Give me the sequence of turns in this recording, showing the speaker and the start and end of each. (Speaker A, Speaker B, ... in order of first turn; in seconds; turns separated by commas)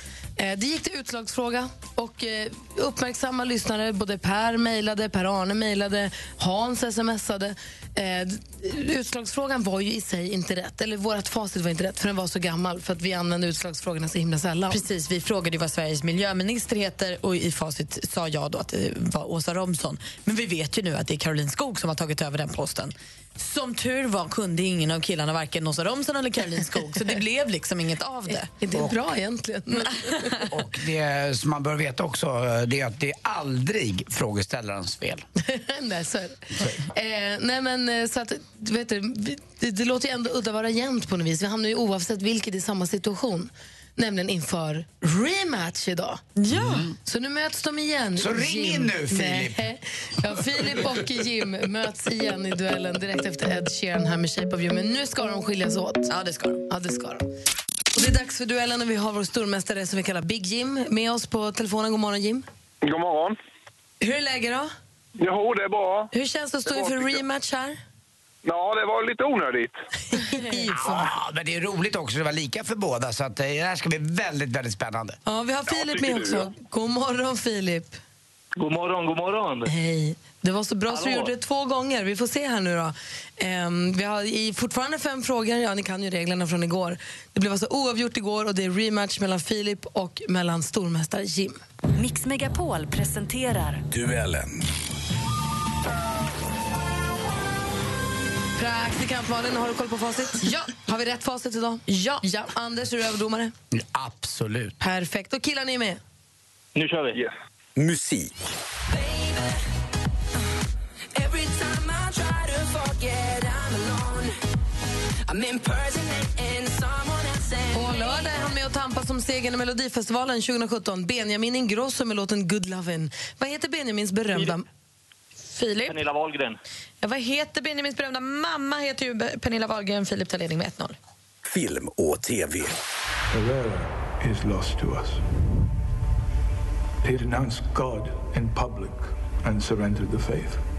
Speaker A: 0.4-14.8, Speaker B: 14.7-28.5, Speaker A: 28.5-30.2, Speaker C: 30.5-35.2, Speaker A: 35.4-46.2, Speaker B: 46.4-46.9, Speaker C: 46.5-46.9, Speaker A: 47.0-56.1, Speaker C: 48.2-49.6, Speaker B: 56.1-56.6, Speaker A: 56.7-57.3, Speaker A: 58.0-62.5, Speaker D: 62.8-63.4, Speaker A: 64.0-64.7, Speaker D: 65.2-66.1, Speaker A: 66.1-67.8, Speaker D: 66.7-67.2, Speaker D: 68.5-69.8, Speaker A: 70.1-71.1, Speaker C: 70.8-75.2, Speaker A: 75.3-78.0, Speaker D: 75.8-76.4, Speaker E: 78.6-79.7, Speaker A: 79.7-91.6, Speaker E: 80.9-81.3, Speaker F: 92.0-93.8, Speaker G: 93.9-94.6, Speaker A: 98.6-103.5, Speaker B: 101.9-102.2, Speaker C: 103.7-104.8, Speaker A: 104.8-106.0, Speaker E: 106.8-107.2, Speaker G: 107.8-108.3, Speaker F: 109.1-109.4, Speaker F: 111.2-114.3, Speaker F: 115.3-117.9, Speaker A: 117.7-124.7, Speaker B: 125.5-126.0, Speaker E: 125.9-126.6, Speaker B: 127.0-131.0, Speaker G: 131.4-132.8, Speaker H: 133.3-135.2, Speaker H: 137.0-140.6